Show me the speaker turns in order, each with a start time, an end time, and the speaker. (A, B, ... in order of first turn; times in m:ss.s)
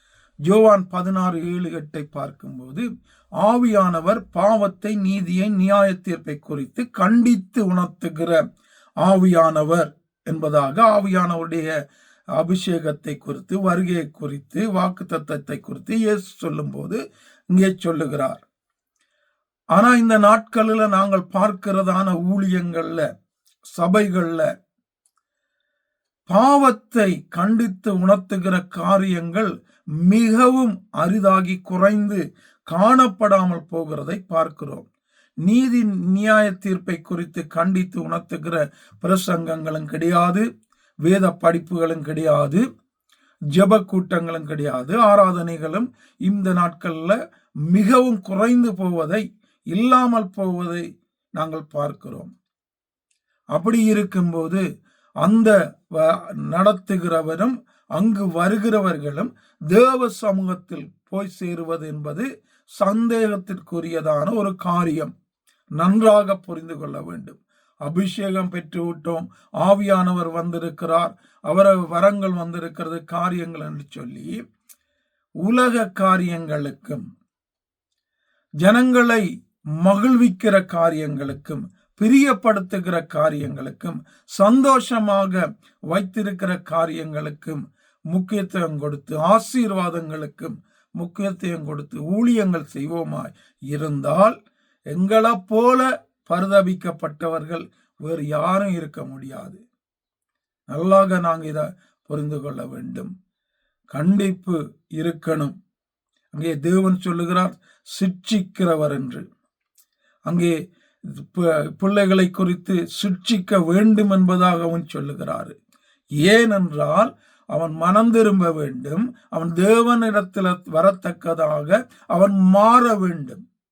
0:00.5-0:02.8 A
0:03.4-0:08.4 A
0:09.0-0:11.7 A
0:12.4-0:17.0 A
0:17.5-0:18.4 A
0:19.8-0:23.0 A
0:23.7-0:24.5 A
0:26.3-0:29.5 A
0:30.0-0:34.8 A
0:35.4-0:40.4 A
0:41.0-0:42.6 A
0:43.5-0:47.2 A
0:47.7-0:50.8 A
0:51.4-0:52.3 A
0:53.5-0:54.6 A
0:55.2-1:02.3 A
1:02.8-1:05.1 A
1:05.8-1:14.3 A
1:15.4-1:17.0 A
1:18.6-1:19.2 A
1:19.8-1:34.4 A
1:34.9-1:39.6 A
1:40.7-1:43.1 A
1:43.9-1:45.5 A
1:46.3-1:49.2 A
1:50.3-1:50.5 A
1:51.1-1:55.6 A
1:56.2-2:03.4 A